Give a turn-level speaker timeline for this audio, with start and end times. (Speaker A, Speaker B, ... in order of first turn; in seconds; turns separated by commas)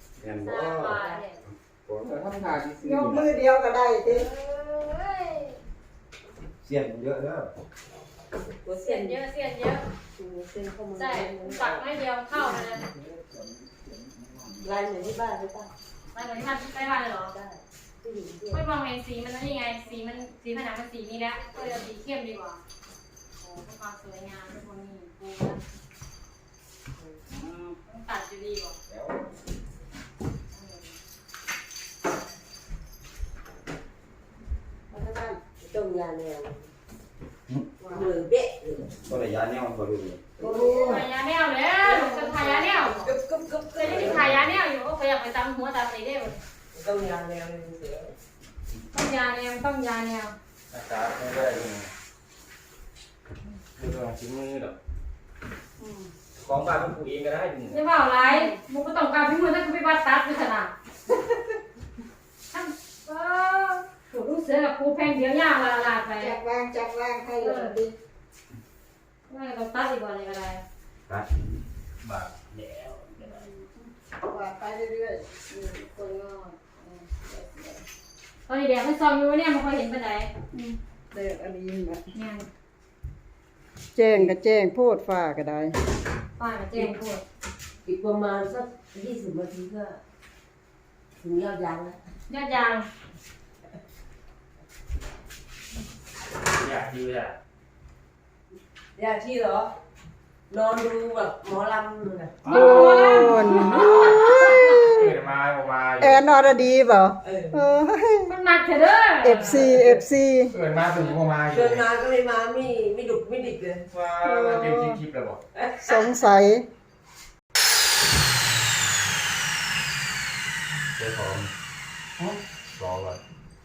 Speaker A: 0.2-1.0, Speaker B: 0.4-1.4, Speaker C: 0.9-1.2, Speaker A: 1.5-2.2, Speaker D: 2.0-3.3, Speaker E: 2.8-4.3, Speaker B: 4.1-5.6, Speaker A: 6.6-7.5, Speaker C: 8.5-9.2, Speaker B: 8.8-9.8, Speaker C: 10.2-11.8, Speaker B: 10.9-12.9, Speaker D: 12.7-14.7, Speaker C: 14.6-15.7, Speaker B: 16.1-17.4, Speaker C: 17.2-18.6, Speaker B: 18.5-22.6, Speaker B: 23.4-25.6, Speaker C: 27.0-27.2, Speaker B: 27.3-28.8, Speaker B: 30.5-30.9, Speaker E: 34.9-35.4, Speaker C: 35.4-36.7, Speaker C: 37.8-39.0, Speaker A: 39.1-40.2, Speaker C: 40.4-41.0, Speaker E: 40.4-41.0, Speaker B: 40.7-43.1, Speaker C: 41.8-44.3, Speaker D: 43.8-44.5, Speaker B: 43.8-46.4, Speaker C: 46.7-48.1, Speaker B: 48.9-50.4, Speaker D: 50.7-51.9, Speaker D: 53.8-54.8, Speaker E: 55.8-56.1, Speaker D: 56.4-57.8, Speaker B: 57.7-60.7, Speaker E: 58.2-58.5, Speaker B: 62.5-66.4, Speaker E: 66.2-67.9, Speaker B: 67.4-67.8, Speaker B: 69.3-70.6, Speaker A: 71.1-71.6, Speaker D: 72.0-73.4, Speaker E: 73.2-75.2, Speaker B: 75.5-77.8, Speaker B: 78.5-80.3, Speaker E: 80.5-82.0, Speaker B: 82.1-82.5, Speaker E: 84.0-85.8, Speaker B: 86.4-87.2, Speaker C: 87.8-90.0, Speaker C: 91.2-92.0, Speaker B: 92.3-92.9, Speaker D: 96.5-97.3, Speaker C: 99.0-99.7, Speaker C: 100.5-102.5, Speaker D: 102.5-106.2, Speaker B: 102.5-104.6, Speaker E: 102.5-105.1, Speaker E: 106.0-108.3, Speaker C: 107.2-107.6, Speaker B: 108.3-109.7, Speaker E: 109.2-110.5, Speaker C: 109.5-110.0, Speaker D: 110.5-111.9, Speaker C: 111.5-113.8, Speaker D: 113.9-115.4, Speaker E: 114.2-115.0, Speaker E: 115.8-116.7, Speaker A: 121.0-121.5, Speaker A: 122.7-123.2